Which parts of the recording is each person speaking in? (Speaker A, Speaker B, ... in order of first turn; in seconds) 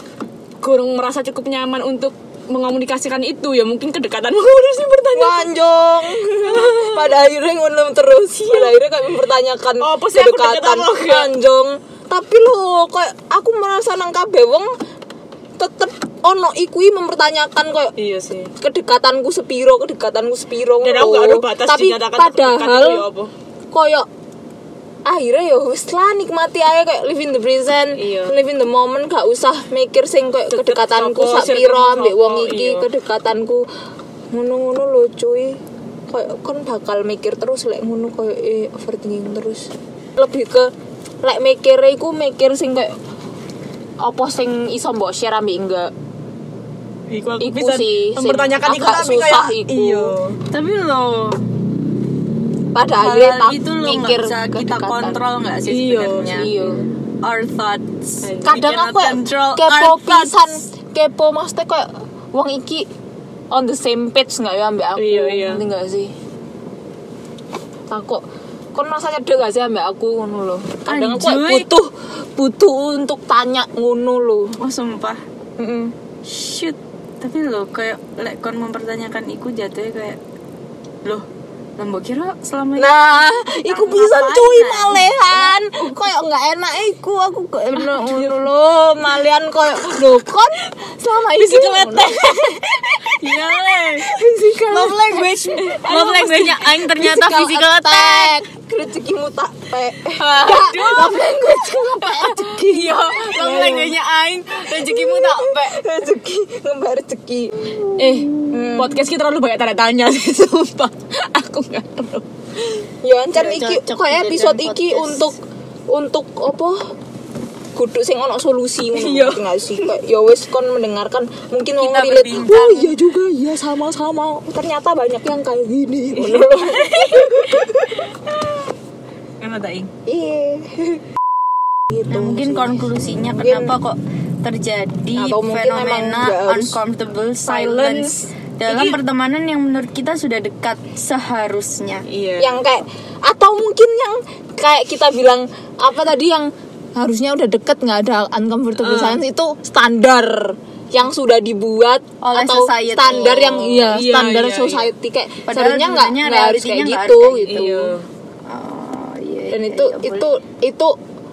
Speaker A: 0.6-5.5, 6.2-7.1, 8.4-8.8, 9.8-11.3, 17.9-18.5, 20.8-23.3, 27.9-28.4, 30.5-32.9, 47.1-50.4, 55.6-56.7, 58.2-58.7, 65.0-65.6, 87.8-88.3, 91.3-92.6, 95.6-96.6, 100.5-102.4, 103.4-103.8, 108.0-112.8, 118.9-120.0, 126.2-127.7, 129.4-129.9, 137.5-139.0, 142.1-142.6, 148.8-149.2, 153.3-154.9, 157.5-158.1
Speaker B: 5.1-14.7, 15.6-17.9, 18.6-23.1, 23.7-24.1, 25.1-33.7, 34.3-40.7, 41.2-43.0, 44.0-45.9, 47.4-50.1, 52.7-55.2, 56.2-56.8, 58.4-62.9, 63.5-66.1, 67.9-74.6, 75.6-75.9, 82.8-93.2, 93.9-104.0, 104.6-107.9, 108.5-109.0, 113.0-115.3, 115.9-116.8, 117.7-128.1, 130.1-131.0, 131.9-133.8, 135.1-136.8, 142.4-157.9, 159.5-161.0
Speaker C: 50.5-51.4, 53.0-56.5, 57.2-60.5, 70.9-71.7, 74.6-75.2, 76.2-80.2, 81.8-85.5, 93.0-94.1, 94.7-98.4, 100.3-102.2, 102.7-105.8, 113.3-115.3, 121.8-123.0, 132.1-142.1, 152.2-153.7, 155.5-157.8, 158.5-160.3